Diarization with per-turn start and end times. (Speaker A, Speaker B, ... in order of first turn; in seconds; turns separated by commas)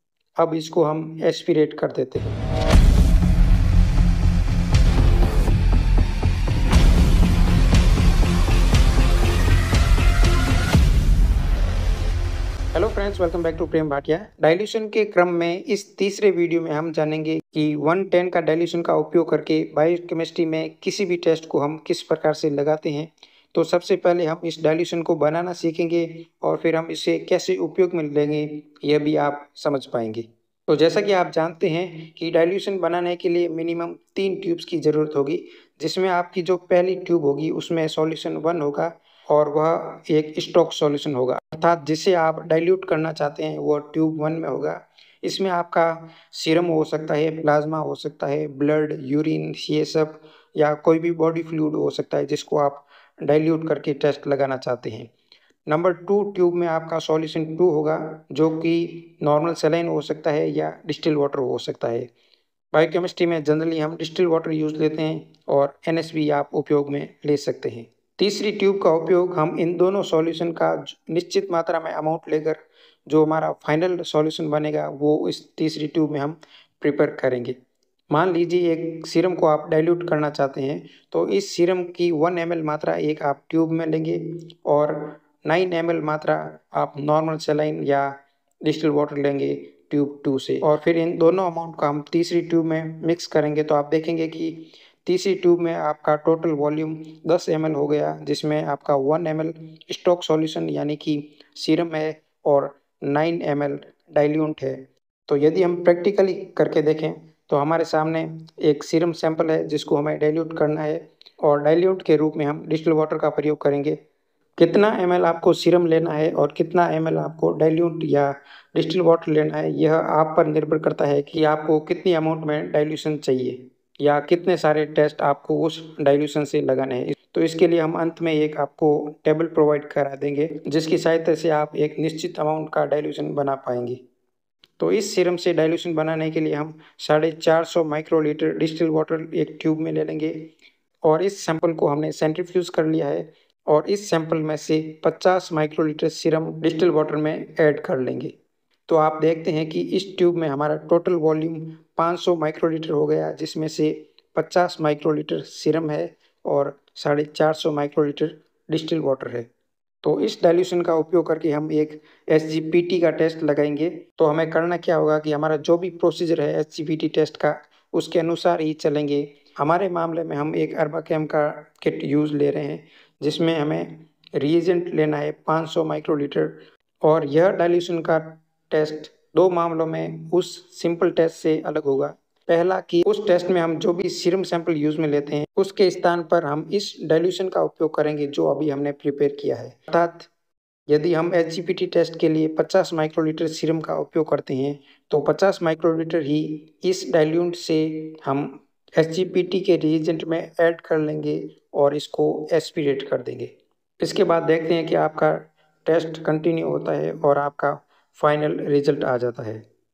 Speaker A: 0.4-2.3, Speaker A: 12.7-55.1, Speaker A: 55.7-62.1, Speaker A: 62.7-77.5, Speaker A: 78.1-114.0, Speaker A: 114.6-134.0, Speaker A: 134.8-140.5, Speaker A: 141.0-148.3, Speaker A: 148.9-159.5, Speaker A: 160.0-190.3, Speaker A: 190.9-209.6